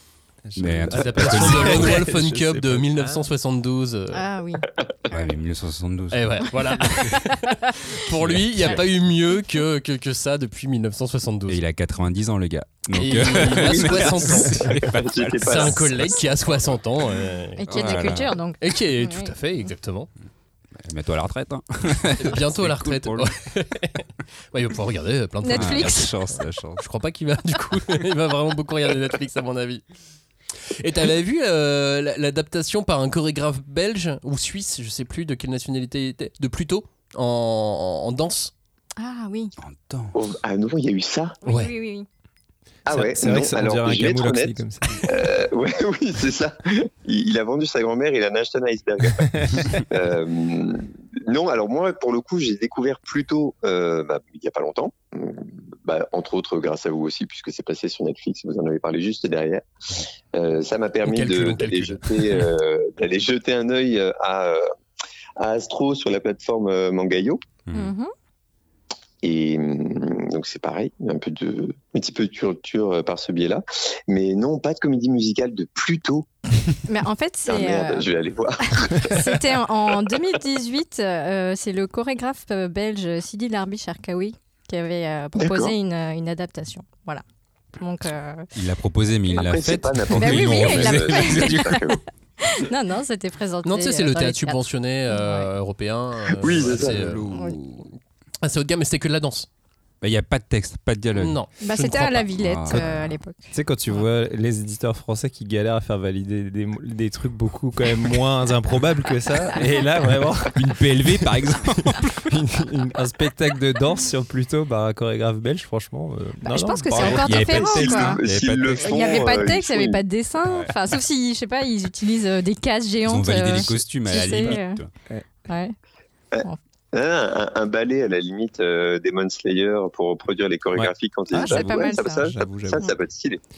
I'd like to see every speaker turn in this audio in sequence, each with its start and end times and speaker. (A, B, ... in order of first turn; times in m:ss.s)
0:00.5-0:03.2 A
0:00.6-0:02.1 B
0:00.9-0:04.2 C
0:04.1-0:04.6 D
0:05.1-0:06.5 B
0:06.1-0:11.6 C
0:08.1-0:08.8 B
0:11.5-0:16.8 B
0:12.9-0:14.6 C
0:13.4-0:15.9 E
0:15.4-0:17.6 C
0:17.6-0:19.3 D
0:17.7-0:18.4 B
0:18.6-0:20.1 C
0:20.8-0:23.3 B
0:22.2-0:26.1 C
0:25.4-0:26.1 D
0:25.5-0:26.8 B
0:26.8-0:29.8 C
0:30.8-0:38.5 C
0:39.0-0:39.5 D
0:39.6-0:40.1 B
0:40.1-0:41.4 E
0:41.4-0:42.1 D
0:41.5-0:41.7 C
0:42.9-0:49.3 E
0:42.9-0:45.1 A
0:49.3-0:49.6 A
0:49.9-0:59.7 E
1:00.3-1:04.7 E
1:01.0-1:02.4 C
1:05.4-1:07.4 E
1:07.6-1:07.9 B
1:07.7-1:08.1 D
1:09.2-1:16.3 E
1:16.9-1:18.1 D
1:17.5-1:19.4 E
1:18.7-1:27.2 D
1:25.4-1:25.7 E
1:27.8-1:28.5 D
1:28.5-1:31.8 B
1:29.3-1:32.0 E
1:30.1-1:35.5 D
1:33.6-1:37.3 C
1:36.4-1:37.1 E
1:36.5-1:37.9 B
1:37.3-1:37.6 D
1:38.4-1:39.5 C
1:40.0-1:43.1 B
1:41.1-1:42.1 C
1:41.6-1:43.5 D
1:43.5-1:57.7 A
1:50.5-1:52.3 B
1:56.4-1:58.2 D
1:57.0-1:59.3 B
1:57.6-2:00.0 E
1:58.8-2:04.8 D
2:03.0-2:04.9 B
2:04.3-2:04.6 A
2:05.5-2:05.8 D
2:06.3-2:13.4 E
2:10.8-2:12.8 A
2:11.3-2:12.3 D